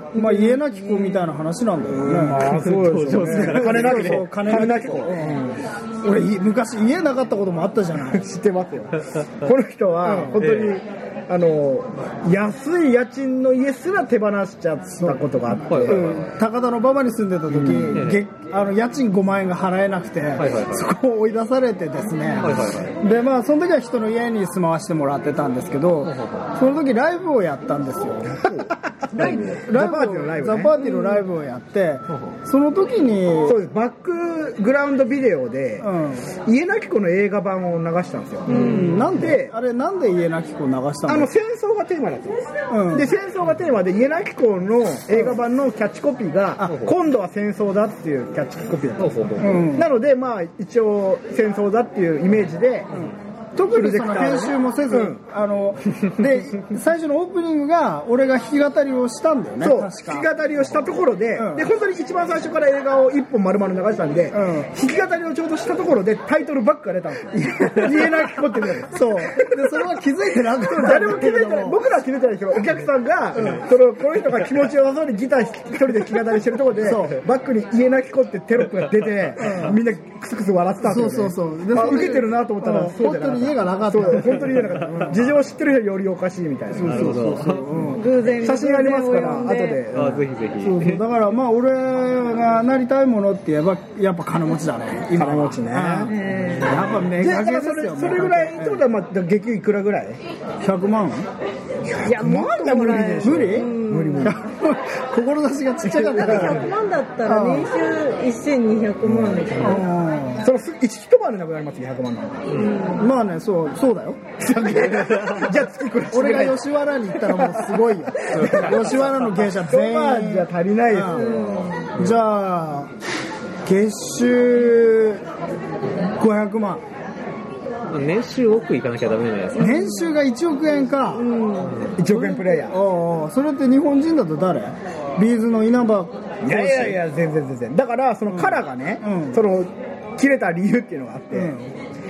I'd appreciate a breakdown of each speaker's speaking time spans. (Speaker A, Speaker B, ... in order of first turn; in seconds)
Speaker A: 0.1-2.5, 3.1-8.2, 10.0-10.4, 15.0-15.2, 15.8-28.6, 29.2-33.6, 35.8-36.2, 38.5-41.3, 42.7-43.1, 49.4-49.9, 52.9-60.3, 61.4-61.7, 64.3-64.7, 67.3-71.8, 73.3-73.6, 76.8-77.2, 79.4-79.8, 80.8-84.9, 86.7-88.0, 90.6-98.8, 100.6-101.3, 103.2-106.7, 107.2-107.7, 109.6-110.4, 112.9-115.3, 116.1-121.2, 121.9-122.9, 123.6-125.2, 126.2-126.8, 129.6-131.3, 132.1-137.0, 138.3-139.4, 141.3-141.7
Speaker B: 0.1-1.3, 29.1-29.5, 30.7-31.3, 38.5-39.0, 81.7-82.2, 87.9-89.8, 96.0-96.9, 102.0-104.3, 106.2-109.9, 112.5-113.1, 121.1-121.9, 129.5-130.1, 131.2-132.2
Speaker C: 1.9-5.6, 8.0-16.1, 17.5-18.0, 28.4-30.8, 33.4-35.9, 36.4-39.5, 41.1-52.9, 53.7-55.2, 59.6-69.9, 70.6-87.2, 88.4-90.2, 95.1-96.2, 97.1-100.2, 101.8-104.4, 105.8-106.6, 109.0-109.6, 110.4-112.7, 114.4-121.4, 131.9-132.8, 136.4-141.6
Speaker D: 2.2-4.2, 10.4-10.8, 15.7-16.2, 17.9-18.2, 20.4-20.9, 22.4-22.9, 26.0-26.5, 29.2-29.4, 38.6-39.0, 46.6-47.0, 49.0-49.6, 84.6-85.2, 86.8-88.0, 89.9-91.0, 118.3-118.8, 121.2-122.2, 127.9-129.6, 131.6-131.9